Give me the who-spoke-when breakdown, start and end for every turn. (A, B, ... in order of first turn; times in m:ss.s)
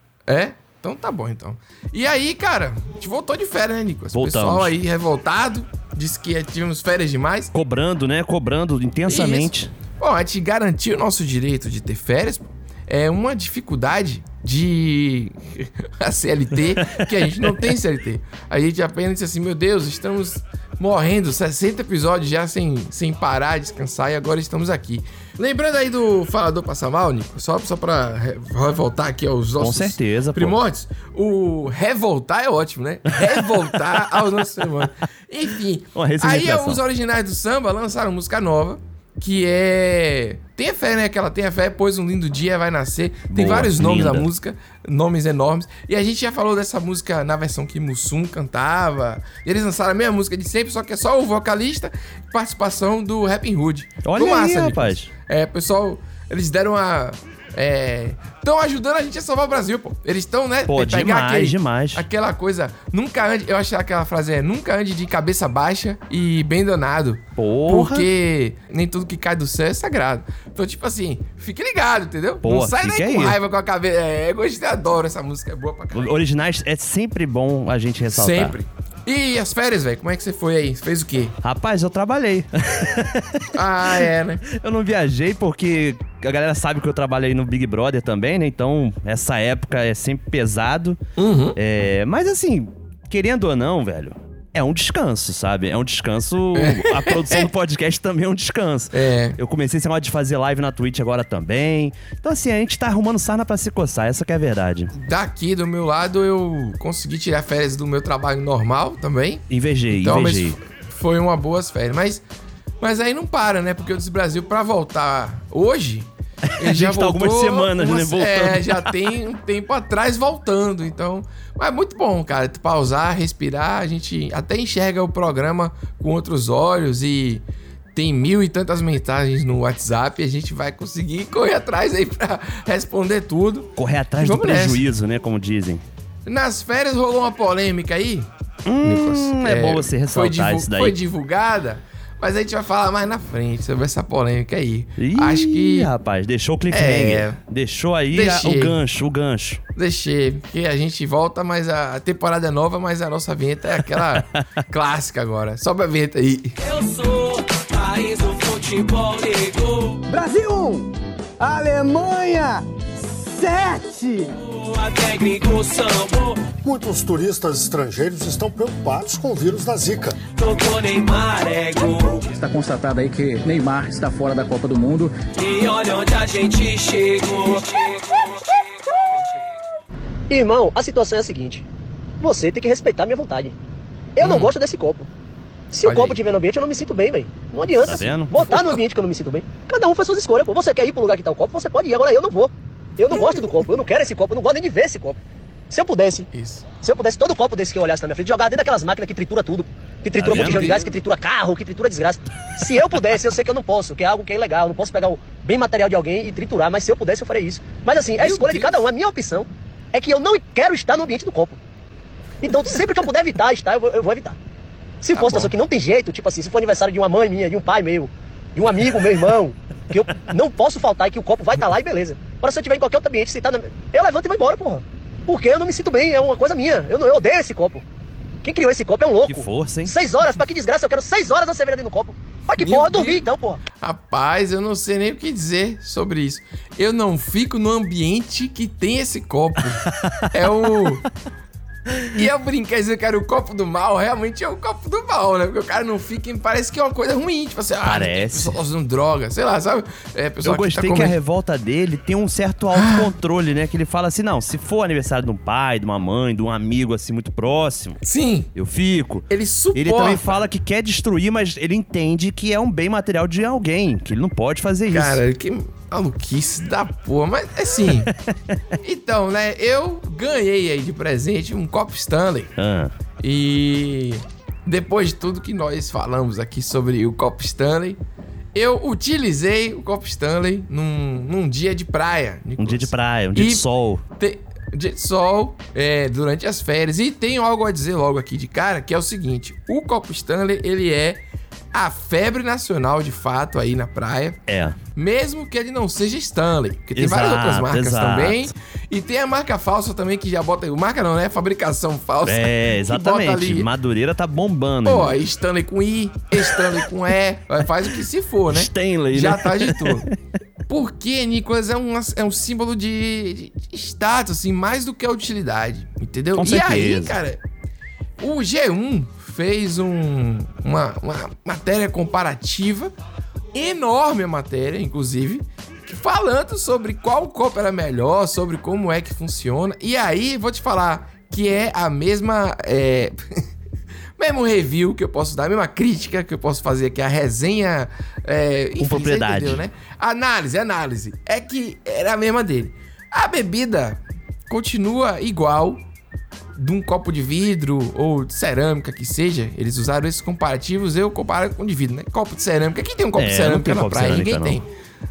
0:00.3-0:07.5 A
0:04.1-0:04.7 B
0:07.5-0:09.7 B
0:09.1-1:16.1 A
0:16.9-0:17.6 B
0:29.6-0:30.6 B
0:35.9-0:36.8 B
0:43.3-0:44.3 B
0:54.0-0:55.1 B
1:00.7-1:02.0 B
1:07.4-1:08.1 B
1:12.4-1:13.4 B
1:15.9-1:18.6 B
1:18.1-1:21.4 A
1:21.4-1:31.0 B
1:23.5-1:24.4 A
1:31.2-1:31.6 A
1:31.6-1:44.9 B
1:36.5-1:37.5 A
1:38.9-1:39.4 A
1:44.9-1:52.2 A
1:49.5-1:50.6 B
1:52.8-2:14.9 A
1:56.5-1:58.9 B
2:13.8-2:15.8 B
2:16.2-2:18.3 A
2:18.6-2:21.0 B
2:18.8-2:25.9 A
2:25.0-2:29.6 B
2:26.7-2:27.4 A
2:28.1-2:28.8 A
2:29.8-2:36.5 A
2:34.1-2:34.4 B
2:36.6-2:40.0 C
2:40.1-2:44.4 D
2:44.4-2:46.4 C
2:46.6-2:50.2 E
2:50.4-2:52.3 C
2:52.3-2:55.1 F
2:55.3-2:58.5 C
3:00.3-3:01.6 G
3:02.2-3:03.6 G
3:04.2-3:05.1 G
3:04.2-3:04.5 A
3:05.7-3:15.2 G
3:05.8-3:06.2 A
3:07.8-3:08.4 B
3:08.4-3:08.7 A
3:13.1-3:13.5 A
3:15.7-3:31.6 G
3:16.3-3:16.7 A
3:20.2-3:20.7 B
3:20.3-3:20.9 A
3:28.2-3:28.8 A
3:32.4-3:34.4 G
3:35.0-3:47.8 G
3:35.1-3:35.5 A
3:48.4-3:53.6 G
3:49.2-3:49.9 B
3:52.6-4:01.0 A
4:00.1-4:01.0 B
4:02.1-4:11.2 A
4:07.8-4:08.6 B
4:10.4-4:18.0 B
4:12.7-4:13.1 A
4:18.0-4:18.5 A
4:18.5-4:25.2 B
4:19.3-4:20.4 A
4:24.9-4:28.1 A
4:28.8-4:32.5 A
4:32.6-4:32.9 B
4:33.2-4:38.0 A
4:38.5-4:43.6 A
4:42.6-4:44.0 B
4:44.2-4:54.4 A
4:54.5-4:54.8 B
4:55.0-5:03.7 A
4:56.9-4:58.5 B
5:02.2-5:05.1 B
5:04.8-5:10.0 A
5:08.5-5:10.1 B
5:10.7-5:17.4 A
5:16.4-5:17.1 B
5:18.2-5:22.9 A
5:23.5-5:33.2 A
5:34.2-5:45.8 A
5:38.8-5:39.6 B
5:46.5-5:54.7 A
5:53.2-5:54.6 B